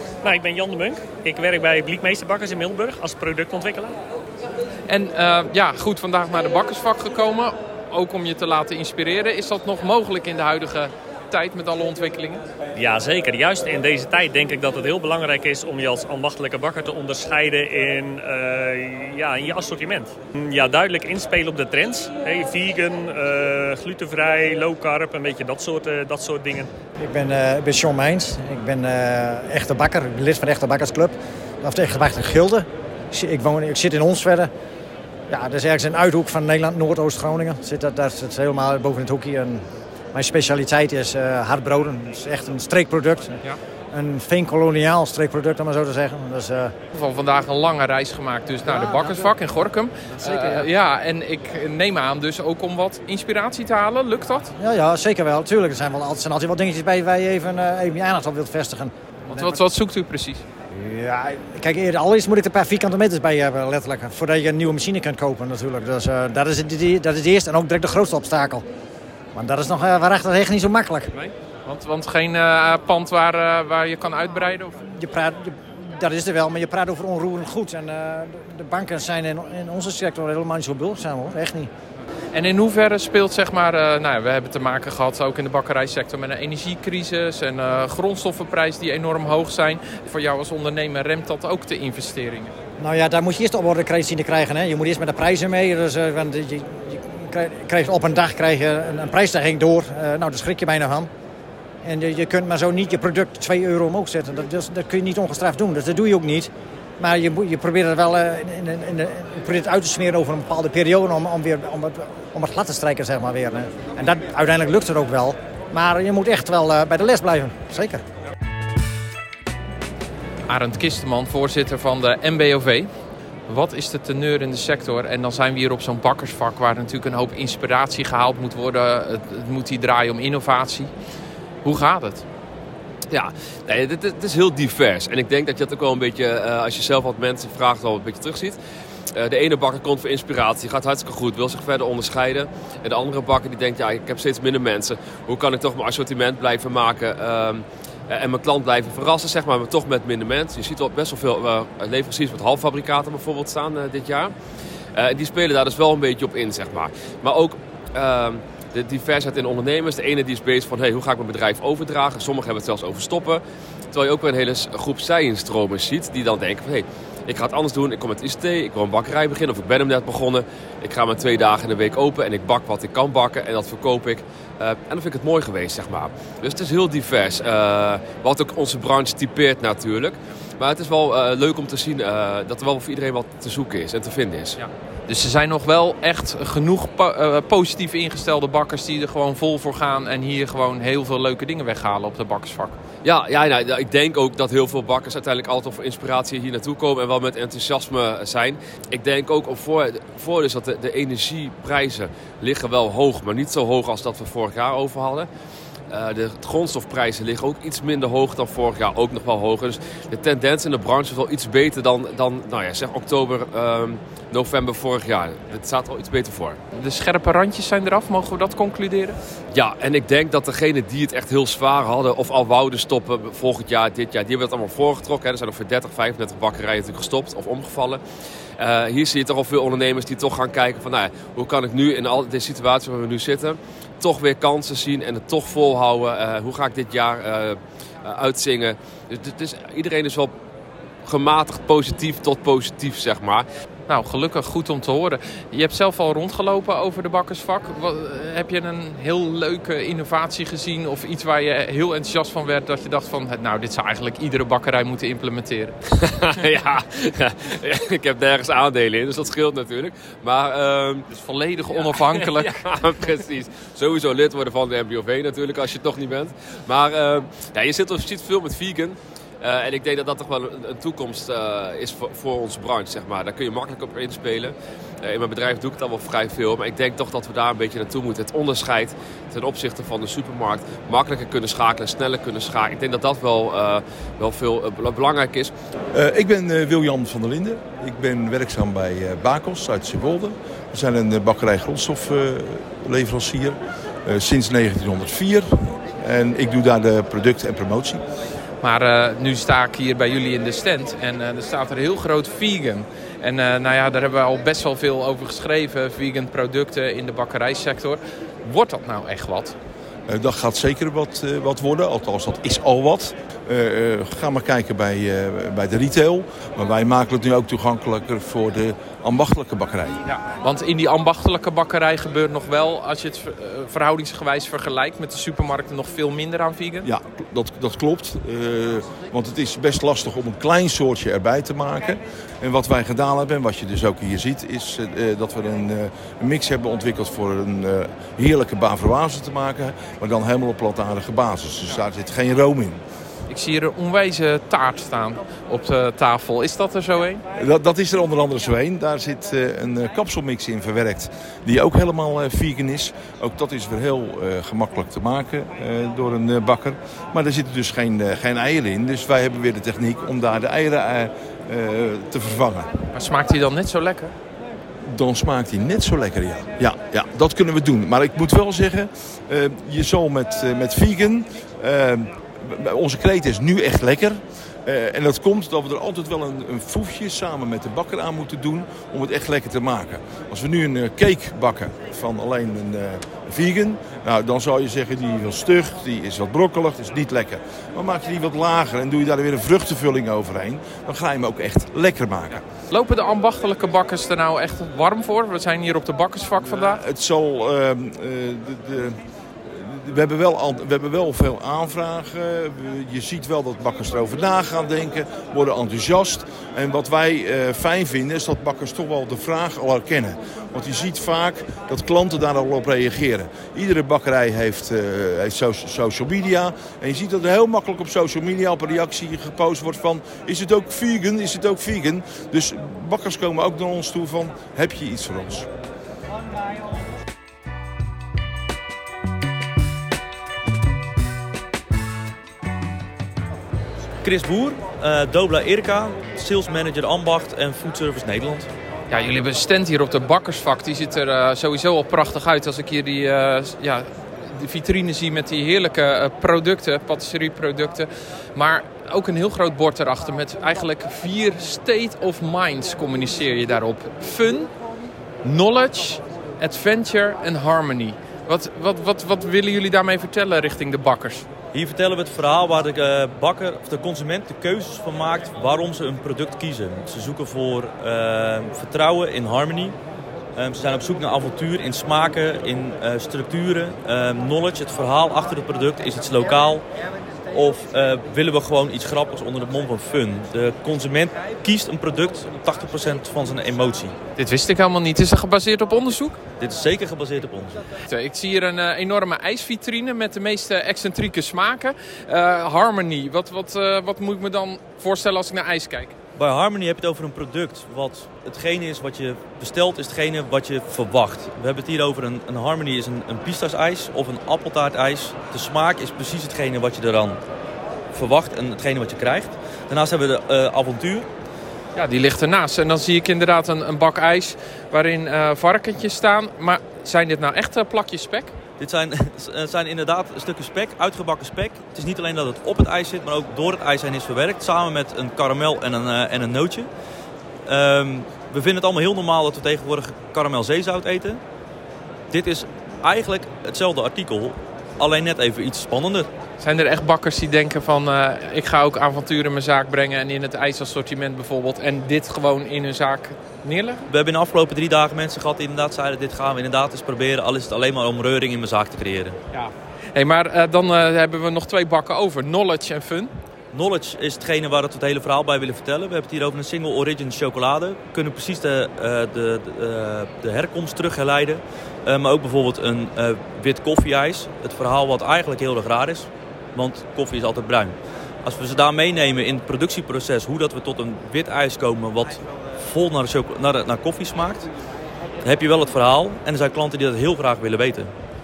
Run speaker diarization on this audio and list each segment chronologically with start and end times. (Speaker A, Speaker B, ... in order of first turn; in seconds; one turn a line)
Speaker A: 0.2-3.9
Speaker B: 4.9-12.4
Speaker A: 12.8-26.7
Speaker C: 27.0-34.5
Speaker C: 35.3-43.4
Speaker C: 43.9-46.7
Speaker B: 46.9-54.5
Speaker C: 50.2-50.6
Speaker C: 54.6-59.6
Speaker B: 59.3-60.4
Speaker C: 60.7-68.6
Speaker C: 69.3-71.1
Speaker B: 71.7-74.8
Speaker C: 74.8-81.7
Speaker B: 82.3-92.5
Speaker C: 92.8-101.1
Speaker C: 101.8-118.0
Speaker B: 120.5-122.9
Speaker B: 123.5-130.9
Speaker B: 131.6-132.2
Speaker D: 133.1-138.6
Speaker D: 139.1-154.3
Speaker D: 154.9-163.4
Speaker D: 163.9-184.6
Speaker B: 185.1-192.8
Speaker D: 193.0-205.3
Speaker D: 205.9-216.6
Speaker B: 216.7-219.2
Speaker D: 219.5-228.0
Speaker D: 228.6-240.3
Speaker D: 241.0-243.4
Speaker B: 243.9-255.7
Speaker D: 256.0-261.1
Speaker B: 261.1-262.6
Speaker D: 261.8-285.5
Speaker E: 285.9-298.0
Speaker B: 298.6-309.6
Speaker E: 310.1-320.0
Speaker B: 320.2-326.9
Speaker E: 326.8-342.8
Speaker B: 343.3-347.2
Speaker E: 347.3-362.7
Speaker B: 362.9-364.1
Speaker E: 364.9-392.4
Speaker B: 392.7-396.8
Speaker E: 396.4-425.5
Speaker F: 434.0-438.5
Speaker B: 438.9-454.5
Speaker B: 455.2-461.2
Speaker F: 461.5-469.8
Speaker F: 470.4-476.6
Speaker F: 477.3-483.9
Speaker B: 484.1-486.2
Speaker F: 486.4-487.6
Speaker B: 487.9-495.9
Speaker F: 496.2-507.2
Speaker F: 507.9-511.1
Speaker B: 511.7-518.3
Speaker F: 518.6-526.7
Speaker F: 527.5-531.2
Speaker F: 532.1-536.1
Speaker B: 536.4-543.8
Speaker F: 543.9-549.2
Speaker B: 549.3-553.1
Speaker F: 553.5-574.5
Speaker F: 575.2-577.9